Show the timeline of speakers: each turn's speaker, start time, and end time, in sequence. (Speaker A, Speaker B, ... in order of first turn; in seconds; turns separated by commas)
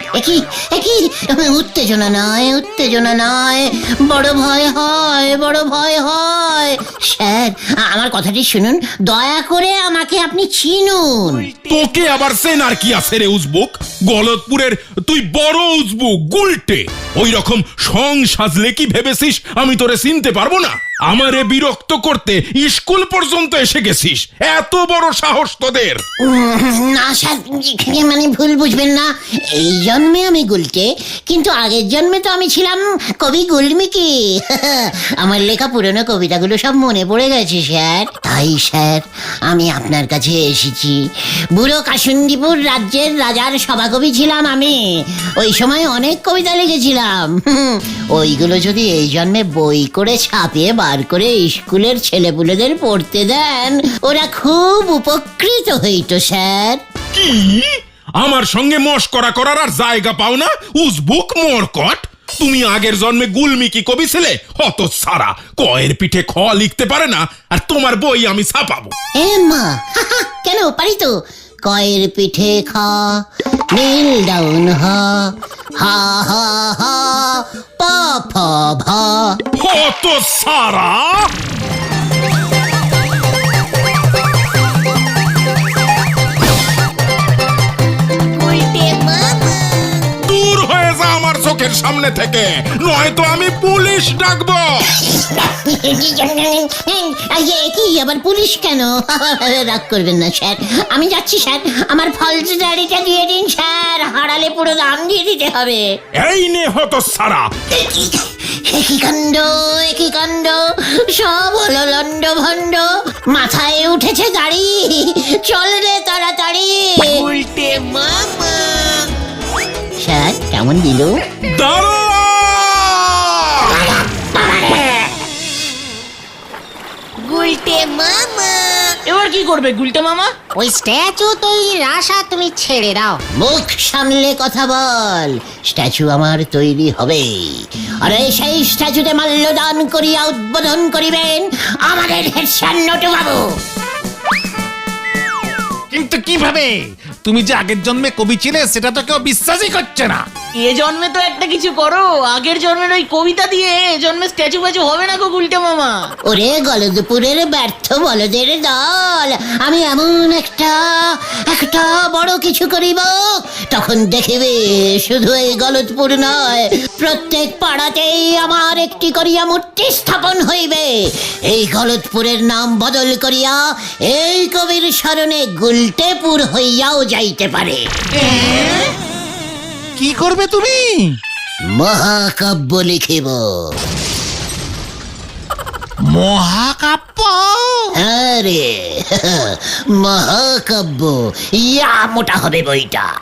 Speaker A: 0.1-11.5, Speaker B: 11.2-11.9, Speaker C: 11.7-26.0, Speaker A: 26.2-41.0, Speaker A: 41.5-56.8, Speaker C: 57.1-68.9, Speaker A: 69.2-71.1, Speaker A: 71.7-73.2, Speaker A: 73.7-79.4, Speaker C: 79.6-81.3, Speaker B: 88.3-90.1, Speaker C: 90.2-94.8, Speaker A: 94.9-105.9, Speaker C: 106.2-107.5, Speaker A: 107.7-117.2, Speaker B: 117.0-119.1, Speaker A: 120.0-121.1, Speaker C: 121.5-123.8, Speaker A: 123.7-125.2, Speaker B: 127.2-129.0, Speaker D: 129.1-130.3, Speaker E: 130.6-133.2, Speaker A: 133.3-143.5, Speaker F: 145.9-150.2, Speaker D: 150.6-156.1, Speaker A: 156.3-177.8, Speaker F: 178.2-178.9, Speaker F: 180.0-181.2, Speaker A: 181.7-183.8, Speaker F: 186.1-187.9, Speaker A: 188.0-193.1